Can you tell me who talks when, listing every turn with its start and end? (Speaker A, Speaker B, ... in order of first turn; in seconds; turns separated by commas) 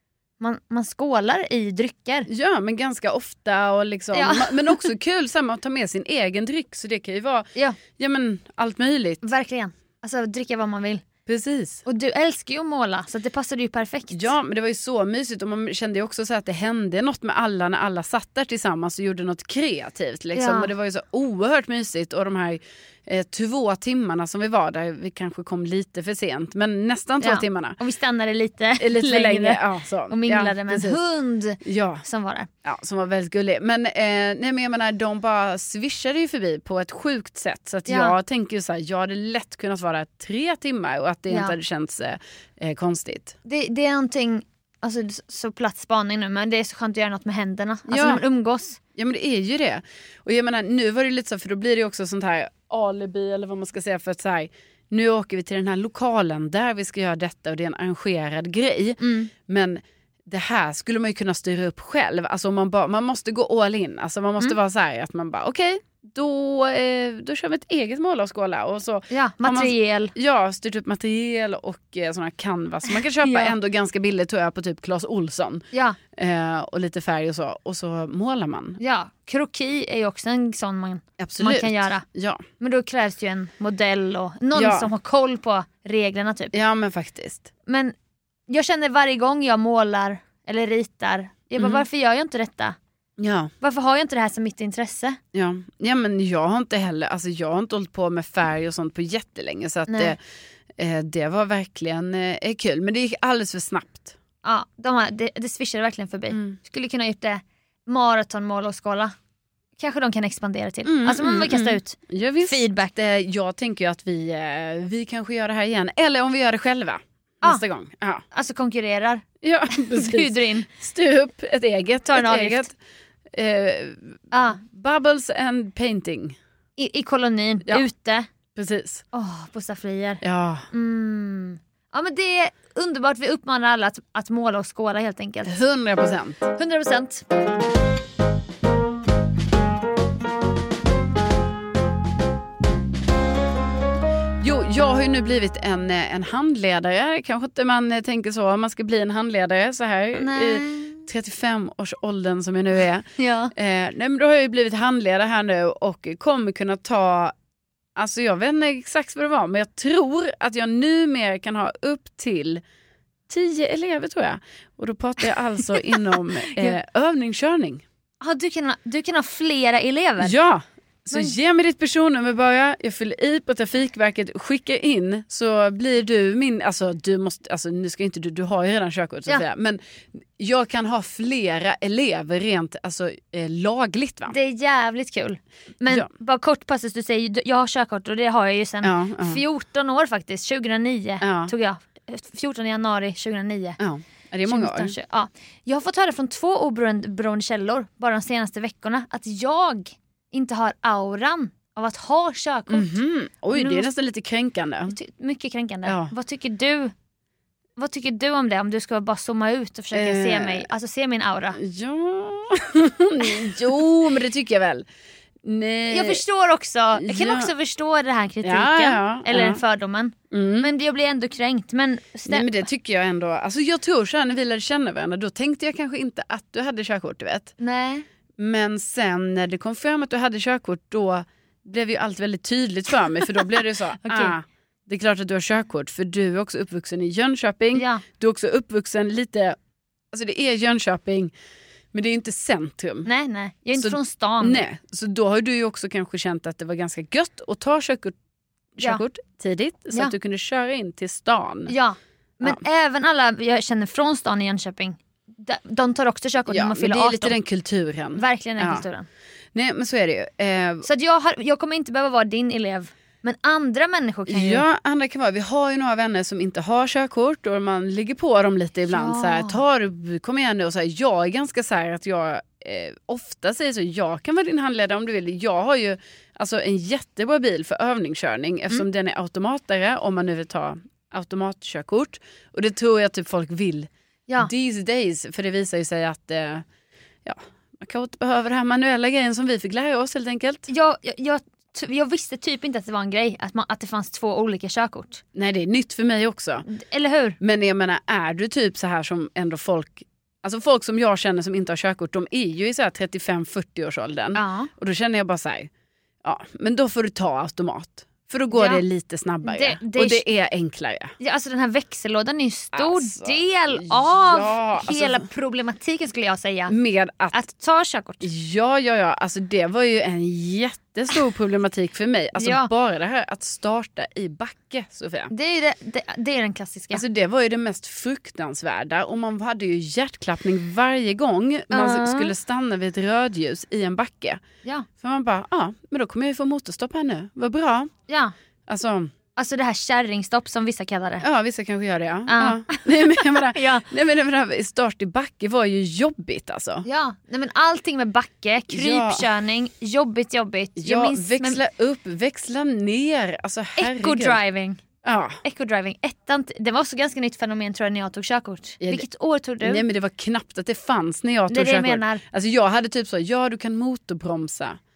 Speaker A: 0.4-2.3, Speaker B: 2.3-9.2, Speaker A: 4.1-4.9, Speaker A: 9.2-11.0, Speaker B: 11.2-11.8, Speaker A: 11.8-14.3, Speaker B: 14.1-27.8, Speaker A: 20.3-20.7, Speaker A: 27.2-32.5, Speaker B: 28.8-31.0, Speaker B: 31.6-32.0, Speaker B: 32.6-43.4, Speaker A: 37.9-38.1, Speaker A: 41.3-41.5, Speaker A: 43.4-48.8, Speaker B: 47.9-48.2, Speaker B: 48.9-78.8, Speaker A: 59.0-59.3, Speaker A: 69.1-70.1, Speaker A: 72.8-73.5, Speaker A: 75.7-76.0, Speaker A: 78.8-82.0, Speaker B: 81.2-82.4, Speaker A: 82.6-86.5, Speaker B: 84.5-84.9, Speaker B: 86.5-87.5, Speaker A: 87.7-87.9, Speaker A: 88.5-92.8, Speaker B: 91.6-91.9, Speaker B: 93.2-93.5, Speaker A: 93.6-95.2, Speaker B: 95.3-100.2, Speaker A: 99.9-100.1, Speaker B: 100.8-104.2, Speaker A: 104.4-109.1, Speaker B: 106.3-106.6, Speaker A: 109.8-112.9, Speaker B: 110.8-118.2, Speaker A: 118.3-120.7, Speaker B: 119.4-122.7, Speaker A: 122.1-122.7, Speaker B: 123.3-126.4, Speaker A: 124.3-124.6, Speaker A: 126.8-128.3, Speaker B: 128.5-129.0, Speaker A: 129.1-135.6, Speaker B: 130.2-130.7, Speaker B: 135.4-136.4, Speaker A: 136.5-137.2, Speaker B: 144.4-157.3, Speaker A: 150.2-151.1, Speaker A: 153.2-153.5, Speaker B: 157.9-162.6, Speaker B: 163.3-167.8, Speaker A: 165.8-166.8, Speaker A: 168.2-170.3, Speaker B: 170.2-184.3, Speaker A: 184.3-193.8, Speaker B: 188.8-189.4, Speaker B: 191.2-191.5, Speaker B: 193.8-194.9, Speaker A: 194.4-202.9, Speaker B: 202.7-204.9, Speaker A: 203.5-203.9, Speaker A: 204.9-206.9, Speaker B: 205.8-206.1, Speaker A: 207.8-211.6, Speaker B: 209.9-210.7, Speaker B: 211.5-214.9, Speaker B: 215.4-216.2, Speaker A: 215.9-222.6, Speaker B: 217.0-217.5, Speaker B: 218.4-219.6, Speaker B: 220.3-220.7, Speaker B: 222.3-227.5, Speaker A: 227.6-228.1, Speaker B: 228.4-239.6, Speaker A: 233.4-234.3, Speaker A: 237.7-238.0, Speaker B: 240.1-241.3, Speaker B: 241.9-243.1, Speaker A: 243.0-244.6, Speaker B: 243.8-248.2, Speaker B: 248.7-251.7, Speaker A: 251.7-257.4, Speaker B: 256.5-258.8, Speaker A: 258.2-259.1, Speaker B: 259.5-260.9, Speaker A: 260.8-264.6, Speaker B: 264.3-286.6, Speaker A: 268.9-269.6, Speaker B: 287.2-290.7, Speaker A: 290.7-295.2, Speaker B: 295.3-296.6, Speaker A: 296.6-297.4, Speaker B: 297.4-305.7, Speaker A: 304.3-304.7, Speaker B: 306.2-311.1, Speaker A: 308.5-308.8, Speaker A: 309.4-310.3, Speaker A: 311.2-316.7, Speaker B: 312.7-315.3, Speaker B: 316.7-317.4, Speaker A: 317.3-318.2, Speaker B: 318.2-325.3, Speaker A: 322.4-322.7, Speaker A: 325.3-327.0, Speaker B: 326.9-334.4, Speaker A: 331.7-332.3, Speaker B: 335.0-337.9, Speaker A: 338.1-338.3, Speaker B: 338.7-339.1, Speaker A: 339.3-341.2, Speaker B: 341.2-346.9, Speaker A: 342.3-343.9, Speaker A: 346.8-351.6, Speaker B: 348.7-349.3, Speaker B: 350.8-354.4, Speaker A: 353.8-354.8, Speaker B: 355.0-355.4, Speaker A: 355.4-359.8, Speaker B: 358.8-359.1, Speaker B: 359.6-364.8, Speaker A: 361.5-362.2